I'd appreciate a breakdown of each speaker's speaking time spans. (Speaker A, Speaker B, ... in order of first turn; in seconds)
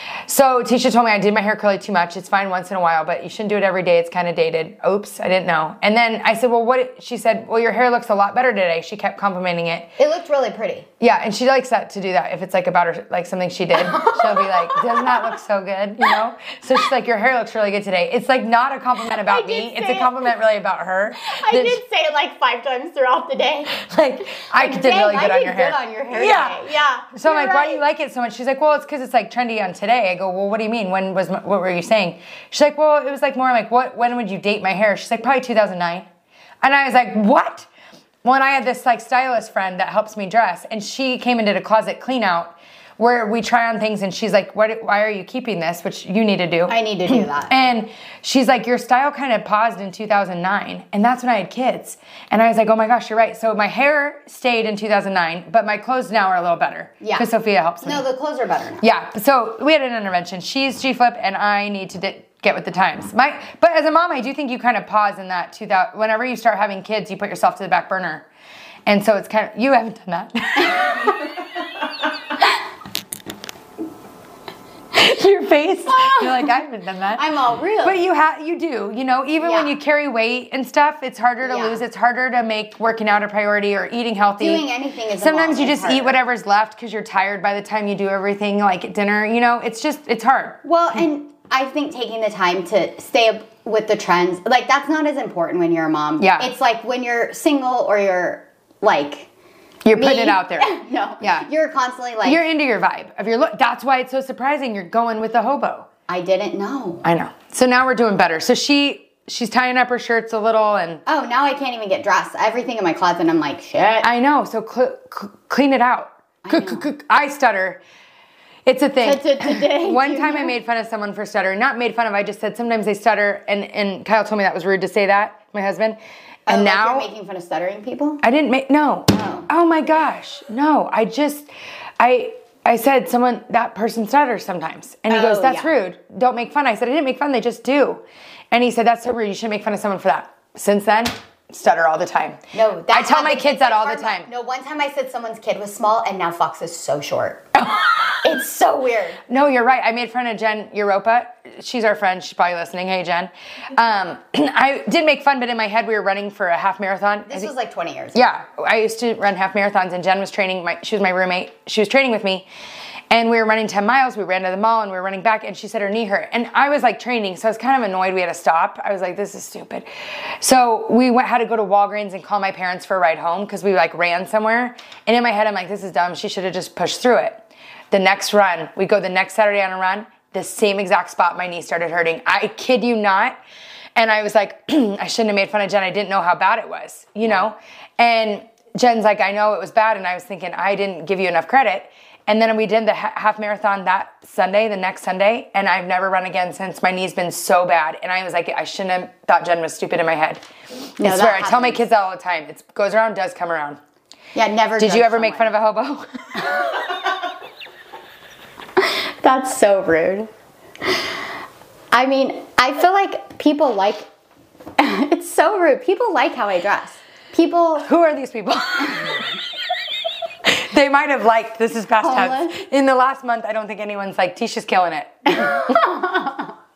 Speaker A: 0.3-9.9, 11.0-21.8, 23.7-36.1, 36.6-37.7, 38.2-58.0, 58.8-68.3, 68.9-71.4, 74.9-77.2, 77.8-84.7, 85.2-91.0, 96.2-96.5, 99.8-101.5, 102.2-105.9, 107.0-111.0, 114.0-117.8, 118.7-127.1, 128.2-144.3, 147.6-148.2, 149.3-157.5, 158.2-162.5, 163.1-169.9, 170.4-183.4, 184.0-200.4, 201.0-203.8, 204.8-206.7, 217.8-219.4, 220.4-225.9
Speaker B: 10.0-10.9, 13.8-15.3, 19.2-20.1, 21.2-23.8, 24.3-27.8, 46.7-47.5, 57.0-57.3, 57.8-58.9, 75.9-76.5, 77.2-78.0, 79.4-79.7, 81.4-81.8, 84.4-86.2, 90.6-99.3, 99.9-102.4, 106.1-107.1, 111.1-114.1, 116.5-116.9, 119.0-120.5, 126.5-128.2, 129.1-129.5, 135.1-135.7, 142.5-147.5, 148.2-149.2, 157.3-158.2, 201.0-201.8, 204.3-205.5, 206.4-206.9, 208.8-210.3, 210.9-211.1, 211.9-214.1, 214.8-217.9, 222.0-222.7, 225.4-226.6